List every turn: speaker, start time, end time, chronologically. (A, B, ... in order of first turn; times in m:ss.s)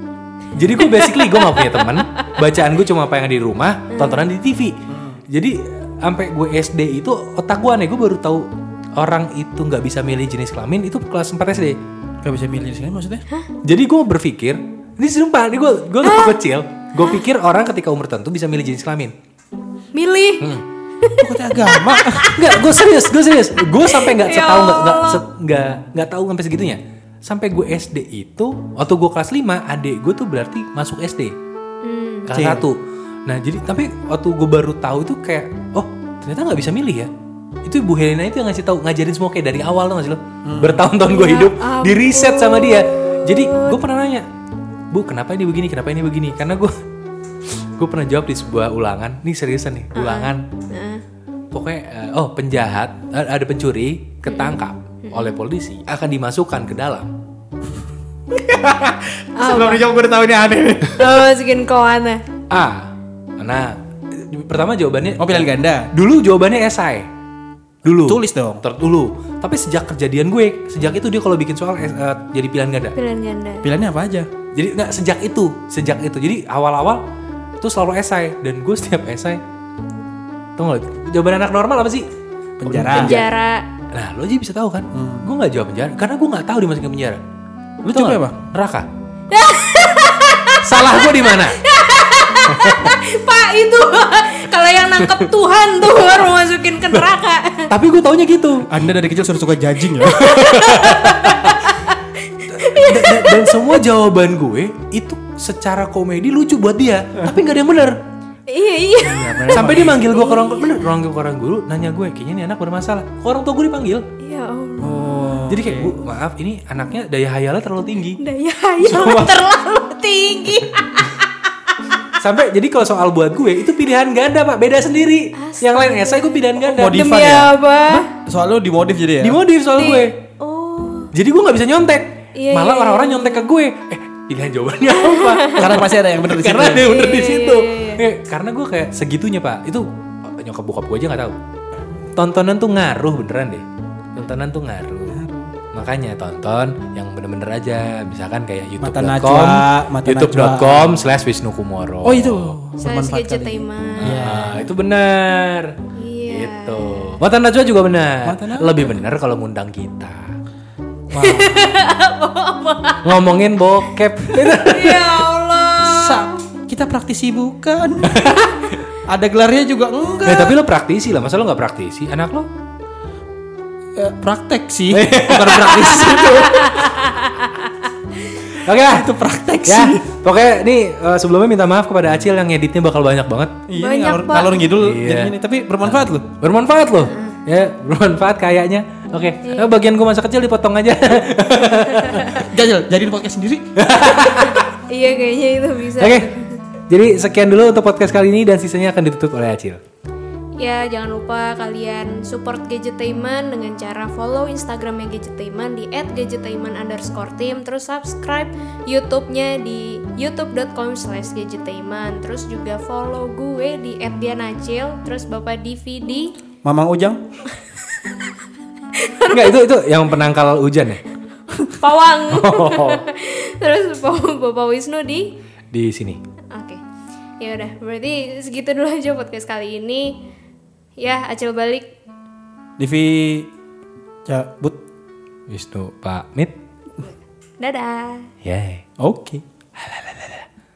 0:00.5-0:04.8 A
0:00.8-0:01.8 B
0:03.9-0:04.3 B
0:04.9-0:05.2 C
0:05.3-0:11.8 A
0:12.2-0:13.2 C
0:13.6-0:19.1 A
0:16.0-0:16.4 B
0:19.9-0:22.8 B
0:20.4-0:20.6 A
0:21.2-0:22.5 C
0:22.3-0:31.3 A
0:23.7-0:25.2 B
0:31.8-0:32.3 B
0:32.2-0:37.1 A
0:32.3-0:32.6 C
0:37.6-0:44.3 A
0:40.4-0:40.8 C
0:41.0-0:43.8 B
0:44.9-0:46.8 A
0:47.5-0:50.4 A
0:49.9-0:51.0 B
0:51.5-0:57.1 A
0:54.2-0:55.3 B
0:58.3-1:01.1 C
0:59.4-0:59.8 B
1:01.0-1:02.2 B
1:02.5-1:07.1 A
1:05.2-1:05.9 C
1:07.8-1:13.0 A
1:07.9-1:08.6 C
1:13.0-1:13.7 B
1:13.6-1:14.3 C
1:14.5-1:17.0 A
1:17.6-1:19.4 A
1:20.6-1:22.1 A
1:22.6-1:23.2 C
1:22.6-1:23.3 A
1:23.0-1:23.6 B
1:23.9-1:27.2 A
1:24.9-1:25.3 C
1:27.8-1:28.4 C
1:27.9-1:28.9 A
1:29.3-1:37.7 B
1:30.6-1:31.6 A
1:32.5-1:32.9 A
1:37.7-1:38.7 A
1:38.7-1:40.5 C
1:40.1-1:41.6 A
1:40.1-1:43.7 B
1:42.5-1:48.0 A
1:48.5-1:50.9 B
1:49.0-1:50.0 C
1:49.5-1:54.0 A
1:54.2-1:55.2 B
1:54.8-1:55.9 C
1:55.5-1:58.2 A
1:58.2-2:01.2 B
1:58.8-1:59.4 A
2:02.2-2:07.4 A
2:05.4-2:08.1 B
2:06.7-2:09.4 C
2:09.2-2:10.2 A
2:09.7-2:11.1 B
2:11.1-2:21.4 A
2:12.4-2:13.5 B
2:15.0-2:15.8 B
2:15.5-2:16.8 C
2:16.8-2:18.0 B
2:22.1-2:25.2 A
2:25.1-2:25.5 C
2:25.7-2:32.6 A
2:28.8-2:31.0 C
2:32.0-2:34.7 C
2:32.8-2:34.4 B
2:34.0-2:35.8 A
2:36.0-2:37.1 B
2:36.3-2:40.4 A
2:38.2-2:38.8 C
2:41.1-2:41.7 C
2:41.1-2:43.2 B
2:43.0-2:45.3 A
2:44.3-2:46.4 B
2:45.8-2:48.3 C
2:48.0-2:48.7 A
2:49.1-2:50.6 C
2:50.2-2:52.5 A
2:54.0-2:56.8 C
2:54.9-2:57.1 A
2:56.8-2:57.4 B
2:58.6-2:59.1 A
2:58.6-3:00.0 C
2:59.6-3:03.6 A
3:03.7-3:06.3 C
3:03.8-3:04.6 B
3:04.7-3:12.5 A
3:07.0-3:07.4 B
3:09.4-3:09.7 B
3:11.9-3:12.3 B
3:12.3-3:13.7 C
3:13.8-3:14.7 A
3:14.1-3:16.6 B
3:16.0-3:16.3 A
3:16.9-3:19.8 A
3:20.6-3:36.3 B
3:36.6-3:37.2 C
3:39.0-3:39.6 B
3:39.2-3:41.0 A
3:41.6-3:45.4 B
3:42.3-3:43.0 A
3:45.7-3:46.2 A
3:46.5-3:46.8 B
3:47.4-3:50.2 B
3:51.0-3:51.9 B
3:52.8-3:53.5 C
3:54.2-3:54.8 C
3:55.5-3:56.6 A
3:57.6-3:58.3 B
3:58.4-3:58.8 A
3:59.0-3:59.4 C
3:59.8-4:00.5 A